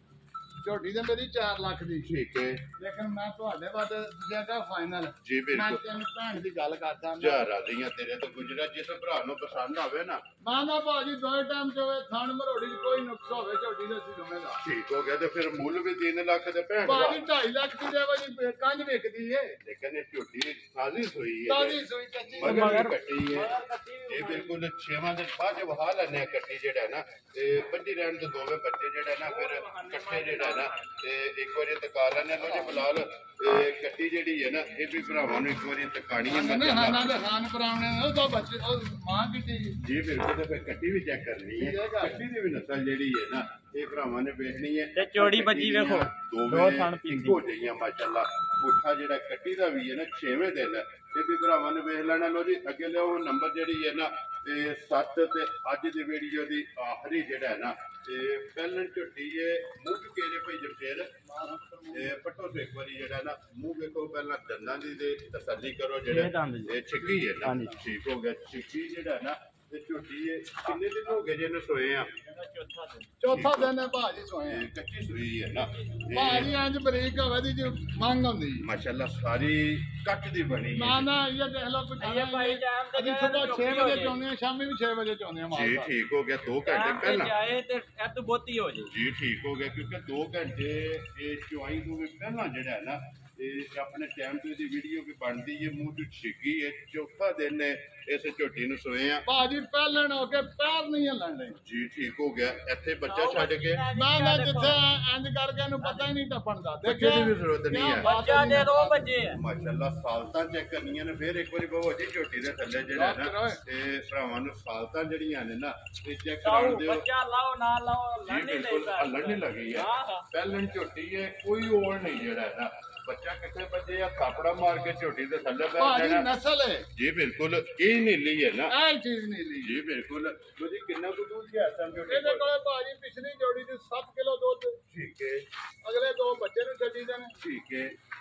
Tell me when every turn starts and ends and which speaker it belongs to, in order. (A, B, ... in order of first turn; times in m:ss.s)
0:00.6-0:02.1 A
0:02.0-0:02.6 B
0:02.8-0:07.5 A
0:05.2-0:05.8 B
0:07.2-0:10.2 B
0:10.4-0:14.6 A
0:14.6-0:17.2 B
0:16.8-0:19.6 A
0:19.6-0:21.8 B
0:21.5-0:22.9 A
0:22.4-0:23.6 B
0:22.4-0:24.6 C
0:24.1-0:37.1 B
0:29.2-0:31.0 C
0:32.4-0:32.9 A
0:36.2-0:39.8 A
0:39.8-1:01.1 B
0:41.6-0:42.2 A
0:44.9-0:47.4 C
1:01.2-1:02.2 A
1:01.9-1:12.1 B
1:06.0-1:06.8 C
1:07.4-1:07.8 C
1:12.3-1:13.1 C
1:13.2-1:14.7 A
1:13.3-1:13.7 B
1:14.4-1:16.5 B
1:16.1-1:18.6 A
1:18.6-1:21.1 B
1:20.7-1:25.9 A
1:22.0-1:24.2 C
1:25.5-1:27.3 B
1:26.6-1:28.9 C
1:28.9-1:39.2 B
1:39.2-1:41.6 A
1:41.6-1:43.8 B
1:43.0-1:44.8 C
1:43.9-1:49.0 A
1:46.8-1:48.1 B
1:48.0-1:49.4 C
1:49.3-1:57.0 B
1:52.9-1:53.6 A
1:56.4-2:00.3 C
1:58.2-2:06.3 B
2:05.8-2:06.9 A
2:06.9-2:08.8 B
2:08.7-2:09.8 A
2:09.6-2:12.4 B
2:12.1-2:14.8 A
2:14.9-2:15.4 B
2:15.8-2:17.4 A
2:17.4-2:17.9 B